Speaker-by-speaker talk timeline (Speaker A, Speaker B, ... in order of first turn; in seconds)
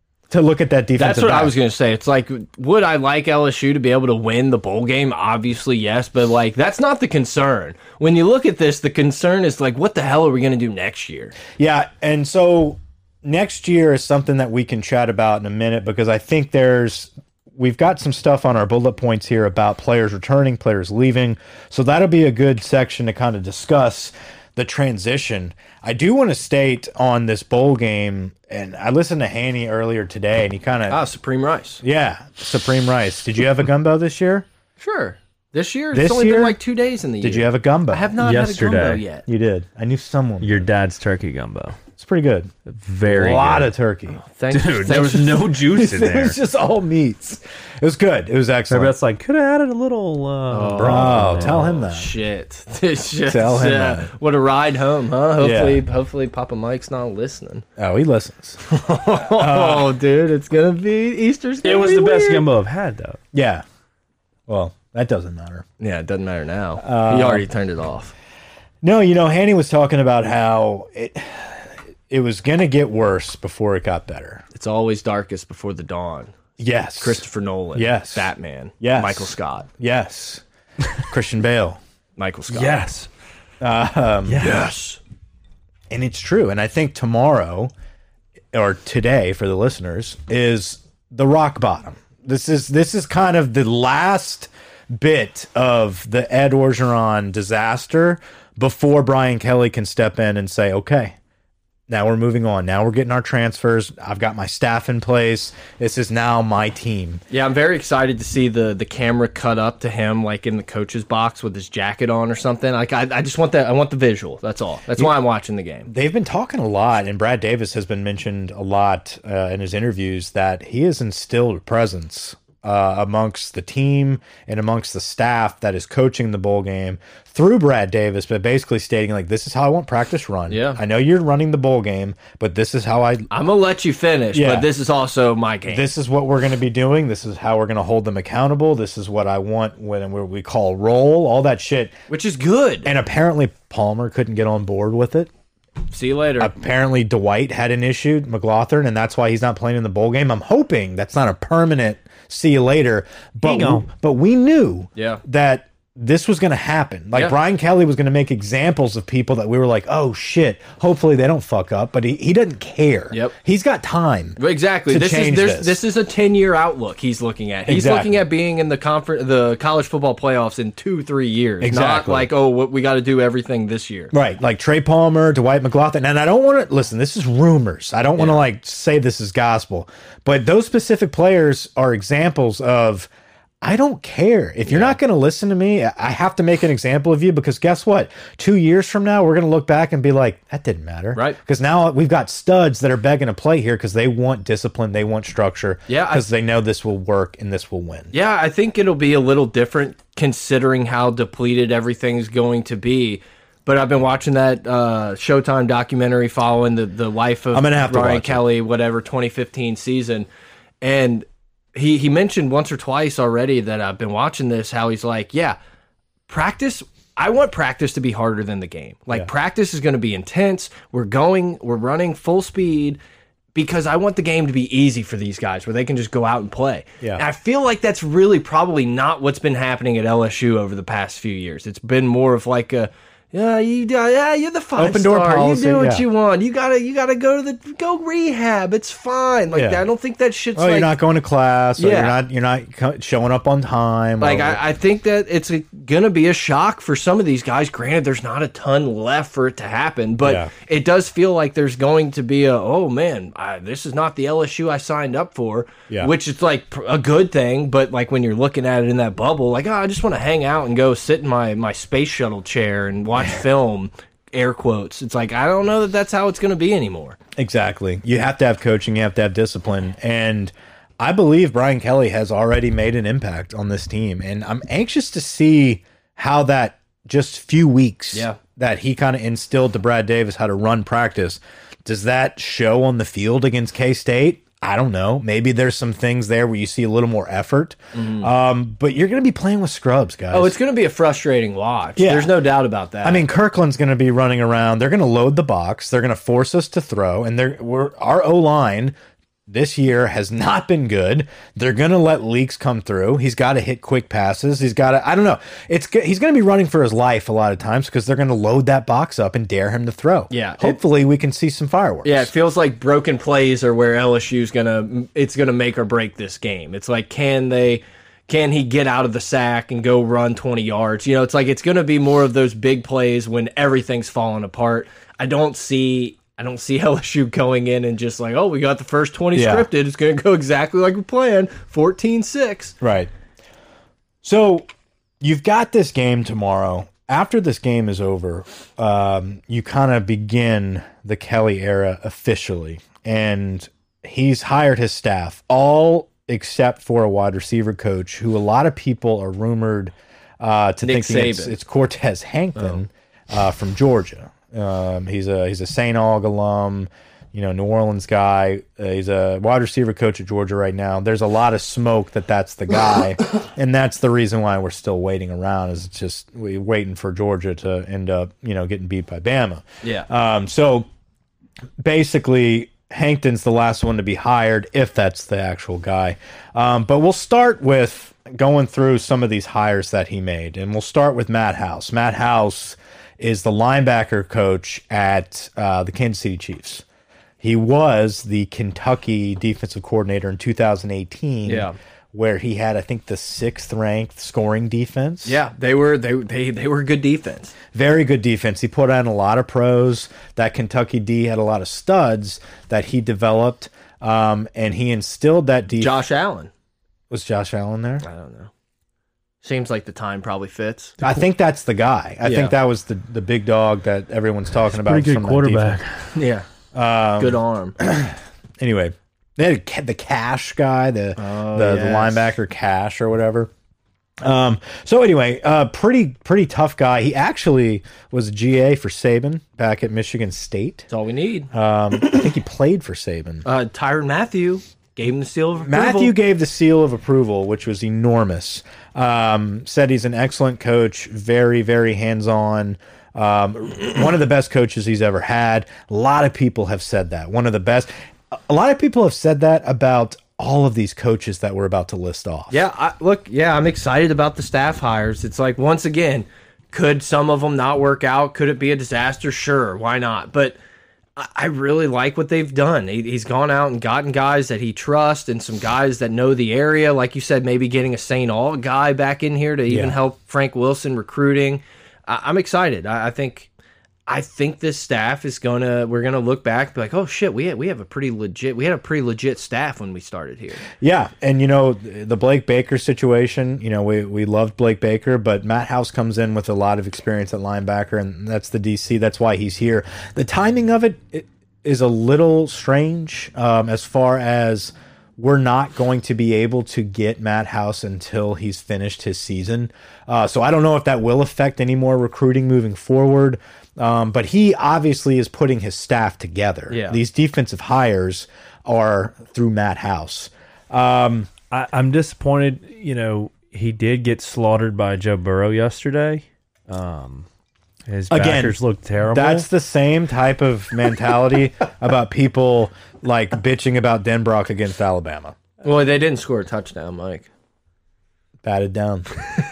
Speaker A: 0.3-1.6, 11.6-31.0, 31.8-34.5, 35.9-36.6, 37.2-38.1, 39.3-40.7, 42.0-42.5, 43.1-44.2, 45.4-48.9, 50.8-52.1, 53.3-54.1, 55.4-55.8, 57.8-58.6, 59.3-59.9, 63.3-63.6, 64.5-65.7, 66.8-67.5, 68.8-74.4, 76.6-80.4, 81.0-81.8, 83.6-84.5, 85.9-87.7, 88.5-101.2, 101.9-107.2, 115.9-133.3, 134.3-134.7, 135.7-141.9, 142.8-145.3, 146.4-165.8, 167.7-168.2, 171.6-172.3, 174.1-183.1, 183.6-198.1, 207.5-208.4, 234.8-236.1, 239.5-239.8, 240.6-244.6, 250.2-250.5, 267.4-290.6, 292.0-292.4, 293.0-299.0, 299.5-312.3, 329.4-329.7, 332.8-333.1, 334.2-334.7, 335.2-370.9, 371.8-386.8, 387.4-395.4, 397.7-406.0, 407.1-408.1, 411.0-415.8, 416.7-423.5, 424.2-430.9, 431.5-433.4, 435.6-452.6, 469.7-470.0, 480.8-511.3, 518.1-525.4, 528.4-529.1
Speaker B: 1.0-11.4, 30.9-31.8, 34.8-39.3, 44.3-45.5, 50.5-57.6, 58.7-62.5, 65.8-68.1, 74.5-76.3, 77.0-79.7, 82.2-82.8, 84.4-85.0, 107.3-115.9, 130.5-130.8, 133.3-135.8, 142.1-142.9, 145.9-146.5, 155.0-155.2, 164.4-174.1, 184.7-185.0, 195.9-196.2, 198.1-210.3, 210.8-215.6, 216.3-223.0, 223.5-240.9, 241.8-242.2, 244.2-267.2, 278.1-278.4, 287.9-288.3, 290.3-293.3, 310.3-310.8, 312.0-332.8, 350.8-351.5, 369.8-370.1, 391.4-391.8, 395.2-397.5, 405.8-406.5, 408.0-408.5, 409.4-411.0, 412.2-412.6, 416.1-416.5, 417.2-417.8, 421.2-422.3, 430.9-431.5, 433.4-436.1, 452.5-460.6, 461.2-473.5, 474.1-480.6, 506.7-507.0, 525.6-527.3
Speaker C: 38.2-39.0, 40.4-41.8, 42.7-43.7, 44.5-46.4, 48.7-51.6, 61.6-63.2, 82.5-83.1, 84.3-84.7, 153.4-153.8, 414.7-416.1, 511.5-517.3, 517.9-519.5